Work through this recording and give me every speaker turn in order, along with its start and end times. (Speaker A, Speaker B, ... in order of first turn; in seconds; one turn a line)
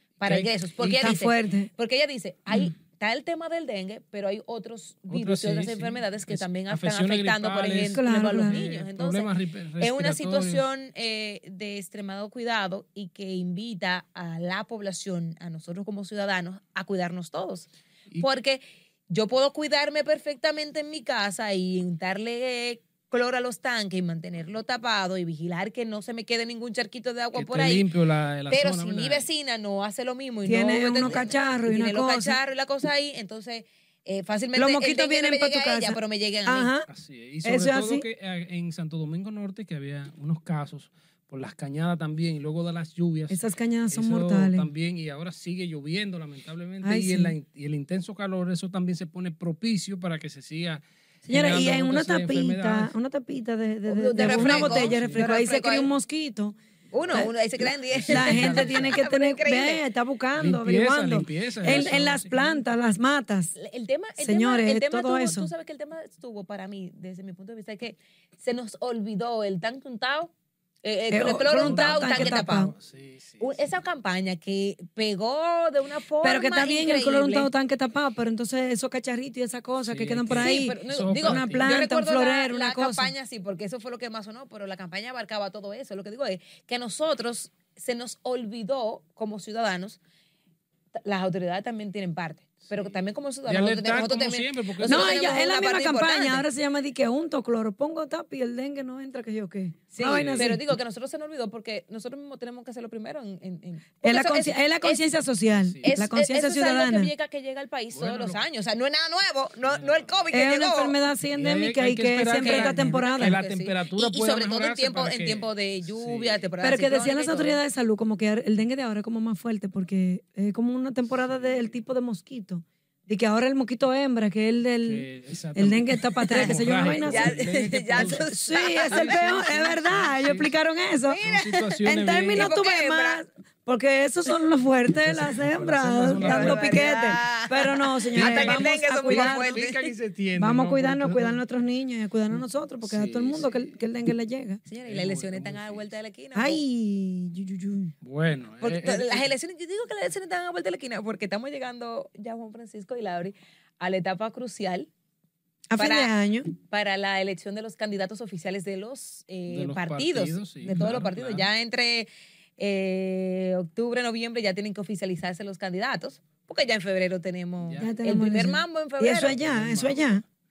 Speaker A: 0.2-27.9
Speaker B: 0.2-1.2
Speaker C: 1.0-1.7
Speaker B: 5.1-10.7
Speaker C: 8.0-8.6
Speaker B: 27.3-29.3
Speaker A: 28.5-36.7
Speaker C: 30.4-32.4
Speaker C: 34.5-36.9
Speaker B: 36.9-52.9
Speaker C: 37.4-38.0
Speaker C: 43.3-44.7
Speaker C: 46.8-47.3
Speaker C: 51.3-56.5
Speaker A: 53.9-55.9
Speaker B: 54.2-55.4
Speaker A: 56.9-59.8
Speaker B: 57.9-59.0
Speaker C: 58.1-63.5
Speaker B: 60.4-62.6
Speaker A: 61.7-62.0
Speaker A: 63.6-70.3
Speaker C: 64.2-65.5
Speaker A: 70.8-72.7
Speaker C: 71.1-72.7
Speaker B: 71.6-73.6
Speaker A: 73.4-77.5
Speaker C: 76.2-83.1
Speaker B: 79.9-81.8
Speaker A: 80.3-90.0
Speaker A: 91.0-96.5
Speaker B: 93.5-95.5
Speaker C: 94.8-100.6
Speaker A: 99.9-105.0
Speaker B: 100.0-100.6
Speaker C: 104.0-107.1
Speaker B: 105.5-106.0
Speaker A: 105.8-110.9
Speaker B: 107.9-108.4
Speaker B: 109.6-110.2
Speaker C: 110.3-113.4
Speaker B: 111.3-116.5
Speaker A: 112.4-117.6
Speaker C: 116.6-127.4
Speaker B: 121.1-121.8
Speaker B: 124.8-130.5
Speaker A: 126.3-129.2
Speaker C: 127.9-131.2
Speaker A: 131.1-131.8
Speaker B: 131.2-132.5
Speaker C: 131.9-139.6
Speaker A: 132.3-133.2
Speaker B: 135.0-137.0
Speaker A: 136.2-139.9
Speaker B: 138.2-141.4
Speaker C: 140.4-144.6
Speaker B: 142.3-143.7
Speaker A: 144.7-146.6
Speaker B: 144.8-145.9
Speaker C: 146.3-147.9
Speaker B: 148.0-149.3
Speaker A: 148.6-154.9
Speaker C: 155.7-156.5
Speaker A: 155.8-169.4
Speaker B: 159.5-161.5
Speaker B: 167.6-167.9
Speaker C: 167.8-170.2
Speaker B: 169.2-170.2